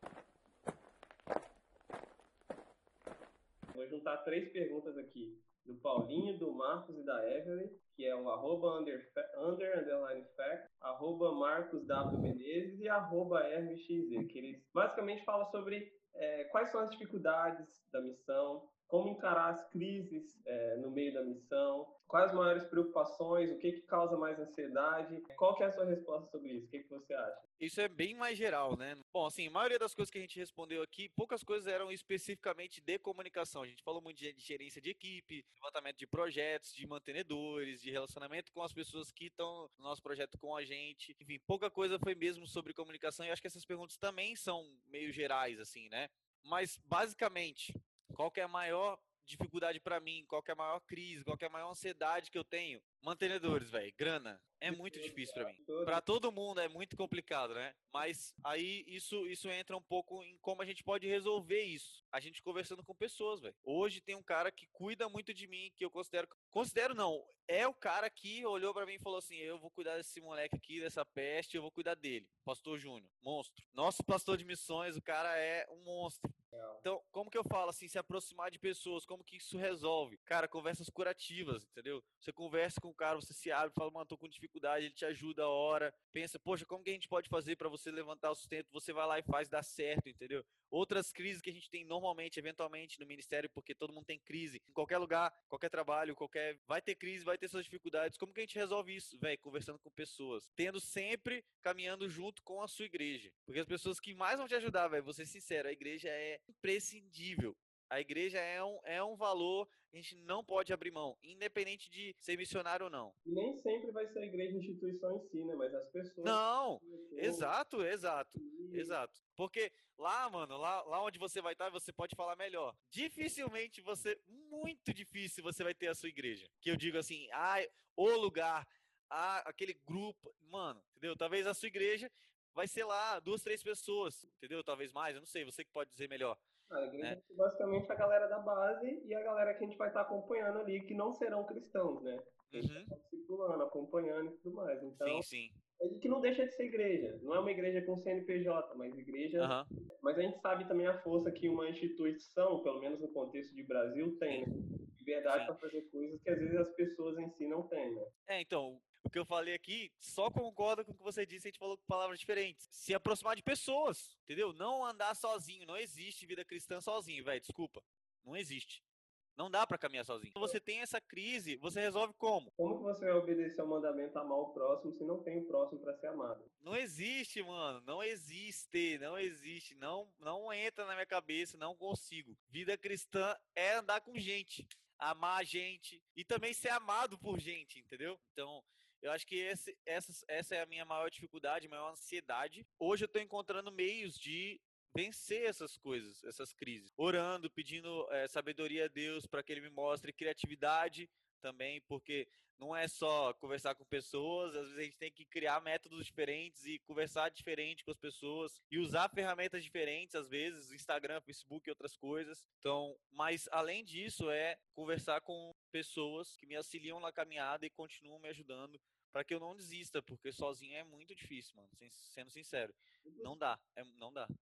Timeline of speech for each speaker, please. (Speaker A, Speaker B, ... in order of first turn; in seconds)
Speaker A: 3.7-27.4, 54.6-56.0, 76.5-76.9, 113.2-117.5, 118.4-119.0, 136.7-145.3, 145.8-158.1, 172.6-176.5, 223.1-223.6
Speaker B: 27.6-113.2, 116.2-136.4, 142.5-142.9, 144.9-145.6, 149.4-149.7, 155.3-155.5, 158.3-168.8, 169.4-172.5, 176.6-224.3